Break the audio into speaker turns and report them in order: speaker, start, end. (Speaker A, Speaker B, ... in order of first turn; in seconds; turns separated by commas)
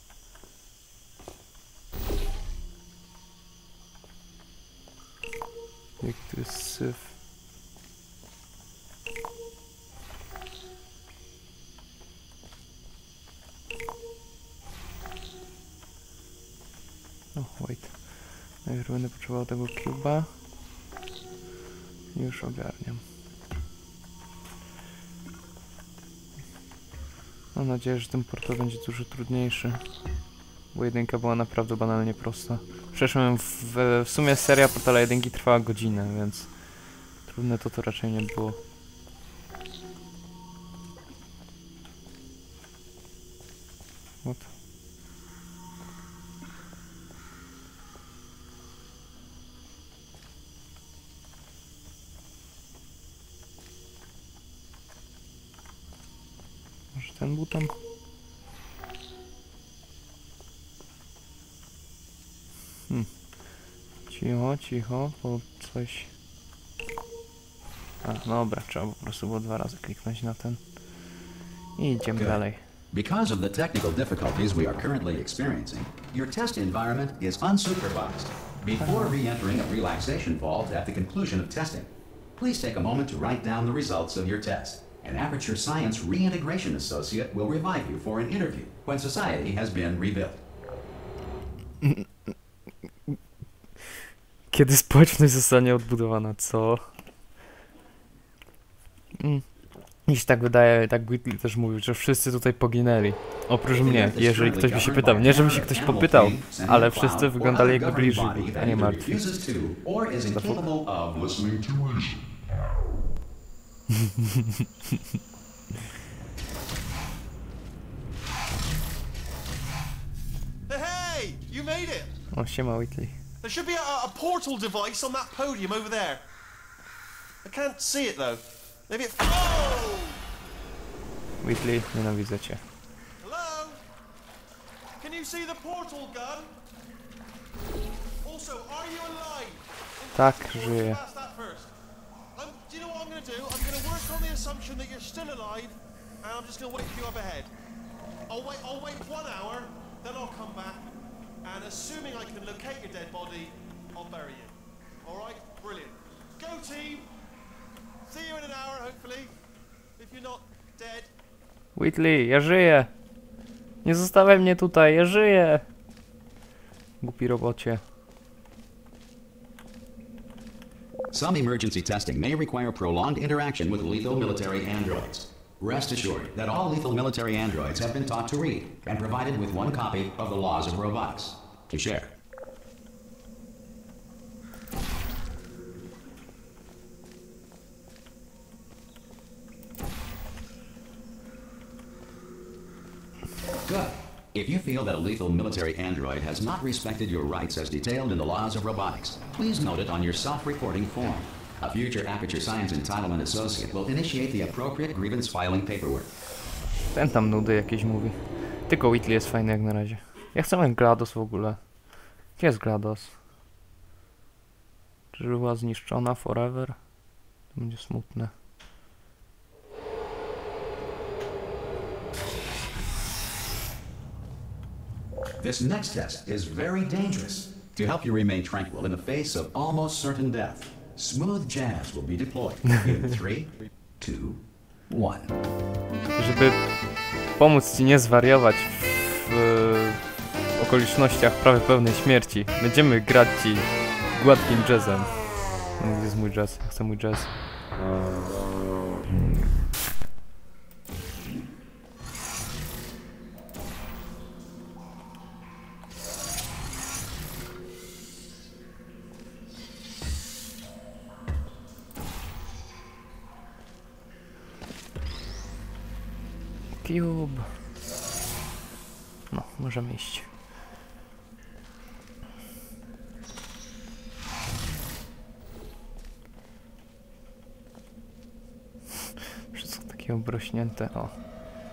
Speaker A: 6.0-7.1, Speaker A: 17.4-20.3, Speaker A: 22.1-23.0, Speaker A: 27.5-29.8, Speaker A: 30.7-36.5, Speaker A: 37.2-38.6, Speaker A: 44.2-44.5, Speaker A: 56.9-57.7, Speaker A: 64.1-66.1, Speaker A: 68.0-70.8, Speaker A: 71.8-72.6, Speaker B: 72.9-90.4, Speaker A: 78.8-79.2, Speaker A: 91.8-92.3, Speaker A: 94.5-96.8, Speaker A: 99.2-99.5, Speaker A: 100.1-109.2, Speaker B: 103.7-112.2, Speaker A: 110.3-110.7, Speaker C: 120.7-122.1, Speaker A: 122.3-123.2, Speaker C: 123.4-126.2, Speaker C: 127.5-130.2, Speaker A: 131.4-132.6, Speaker C: 133.2-133.8, Speaker C: 135.0-136.5, Speaker C: 138.2-141.7, Speaker A: 140.2-141.0, Speaker C: 142.3-147.5, Speaker C: 148.3-150.9, Speaker C: 151.4-157.1, Speaker C: 158.1-159.3, Speaker C: 160.0-161.1, Speaker A: 161.8-162.9, Speaker A: 163.8-165.6, Speaker A: 167.0-167.8, Speaker B: 171.1-182.1, Speaker B: 193.7-206.1, Speaker A: 206.9-211.7, Speaker A: 212.3-213.2, Speaker A: 215.1-216.8, Speaker A: 217.5-218.3, Speaker B: 225.4-235.3, Speaker A: 236.2-236.6, Speaker A: 237.4-240.0, Speaker A: 240.6-245.2, Speaker A: 245.7-247.3, Speaker A: 266.8-267.5, Speaker A: 269.3-270.3, Speaker A: 279.5-281.2